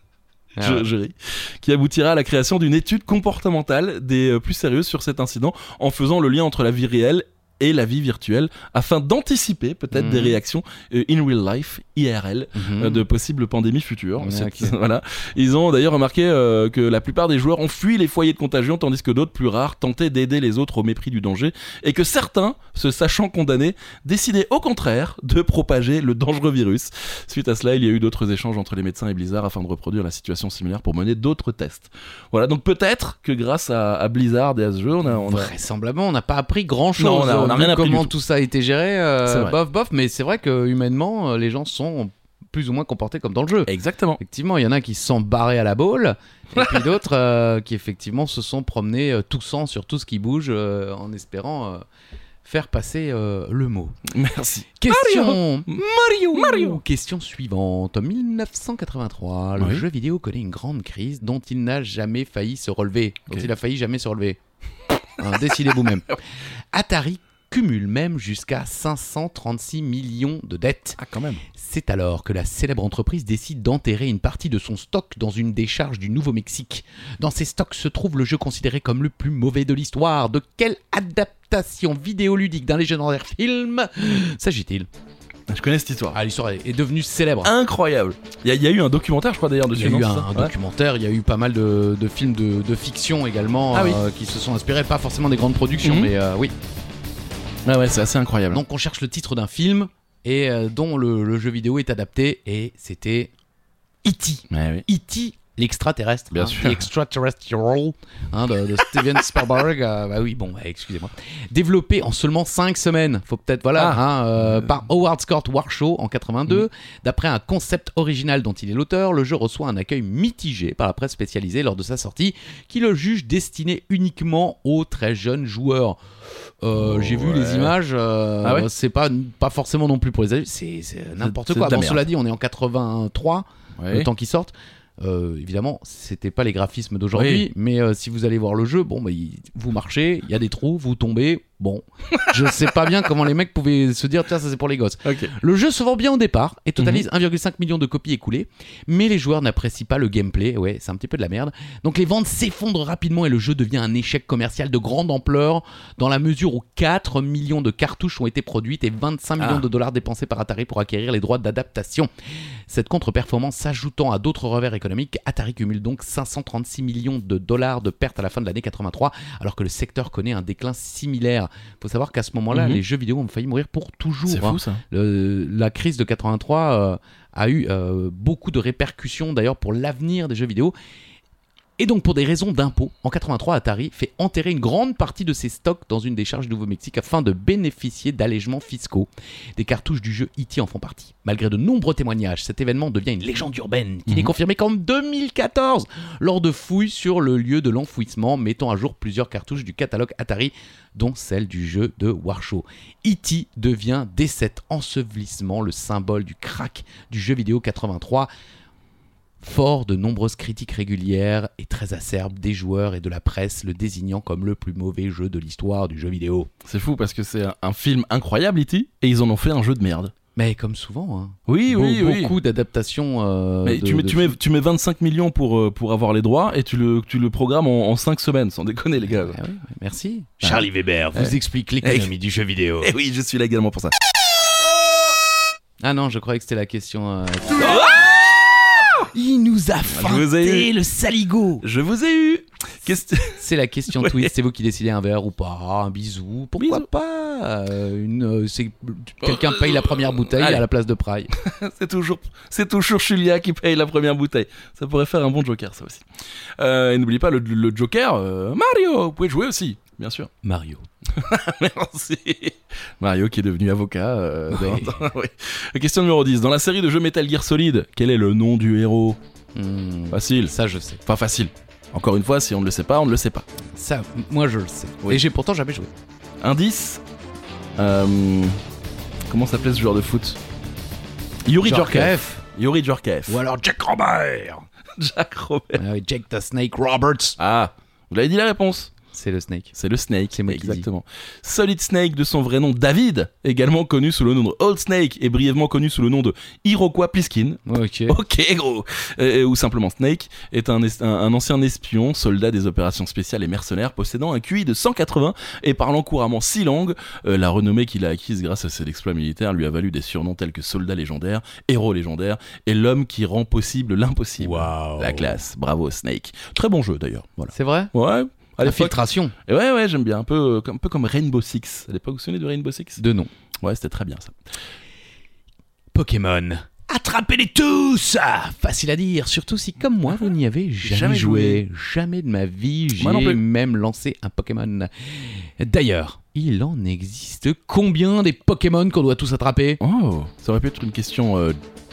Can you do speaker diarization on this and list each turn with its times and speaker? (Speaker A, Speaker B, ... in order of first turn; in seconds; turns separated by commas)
Speaker A: 0.6-0.9, Speaker B: 0.6-35.5, Speaker A: 9.9-10.4, Speaker A: 12.6-13.0, Speaker A: 14.2-14.8, Speaker A: 35.1-51.8, Speaker B: 37.0-38.1, Speaker B: 39.2-39.6, Speaker B: 43.7-44.2, Speaker A: 52.4-54.0, Speaker B: 54.1-55.8, Speaker A: 54.8-64.4, Speaker B: 56.3-56.8, Speaker B: 59.6-59.8, Speaker A: 65.2-66.2, Speaker A: 66.7-71.0, Speaker B: 71.0-71.4, Speaker A: 71.5-84.9, Speaker B: 85.5-86.2, Speaker A: 86.1-87.5, Speaker B: 87.4-90.5, Speaker A: 89.7-96.5, Speaker B: 93.7-94.0, Speaker B: 95.8-96.1, Speaker B: 97.7-98.6, Speaker A: 98.5-103.3, Speaker A: 104.0-162.1, Speaker B: 104.5-104.9, Speaker B: 106.3-106.8, Speaker B: 113.8-114.0, Speaker B: 126.8-127.8, Speaker B: 128.4-128.7, Speaker B: 131.2-132.1, Speaker B: 133.8-134.1, Speaker B: 137.2-137.5, Speaker B: 145.0-145.3, Speaker B: 146.8-147.0, Speaker B: 159.4-159.6, Speaker A: 162.7-180.7, Speaker B: 172.5-172.8, Speaker B: 174.3-174.8, Speaker A: 181.8-208.3, Speaker B: 194.1-194.3, Speaker A: 209.4-216.5, Speaker B: 216.7-220.1, Speaker A: 220.3-224.4, Speaker B: 221.5-222.3, Speaker B: 223.7-229.4, Speaker A: 229.1-232.9, Speaker B: 231.1-232.1, Speaker B: 232.8-233.9, Speaker A: 235.8-238.1, Speaker B: 237.6-239.0, Speaker A: 239.1-241.6, Speaker B: 239.9-240.7, Speaker B: 241.6-243.4, Speaker A: 243.4-251.3, Speaker B: 243.9-244.3, Speaker B: 246.6-246.9, Speaker B: 249.2-250.6, Speaker B: 251.3-256.1, Speaker B: 256.6-260.3, Speaker A: 260.4-260.9, Speaker B: 261.1-269.2, Speaker A: 264.5-265.1, Speaker A: 269.6-271.0, Speaker B: 270.1-270.5, Speaker B: 271.1-273.5, Speaker A: 273.7-275.9, Speaker B: 276.4-277.0, Speaker B: 277.8-278.6, Speaker B: 279.3-280.4, Speaker B: 281.5-283.4, Speaker A: 281.6-282.4, Speaker A: 283.3-284.7, Speaker B: 285.0-285.8, Speaker A: 285.8-287.4, Speaker B: 287.4-288.9, Speaker A: 289.1-289.8, Speaker B: 289.8-323.0, Speaker A: 290.3-290.9, Speaker A: 297.7-298.2, Speaker A: 314.4-315.4, Speaker A: 317.5-317.9, Speaker A: 318.6-319.3, Speaker A: 323.0-323.3, Speaker B: 323.6-324.4, Speaker A: 325.9-339.8, Speaker B: 330.8-331.6, Speaker B: 333.0-333.4, Speaker B: 339.8-341.6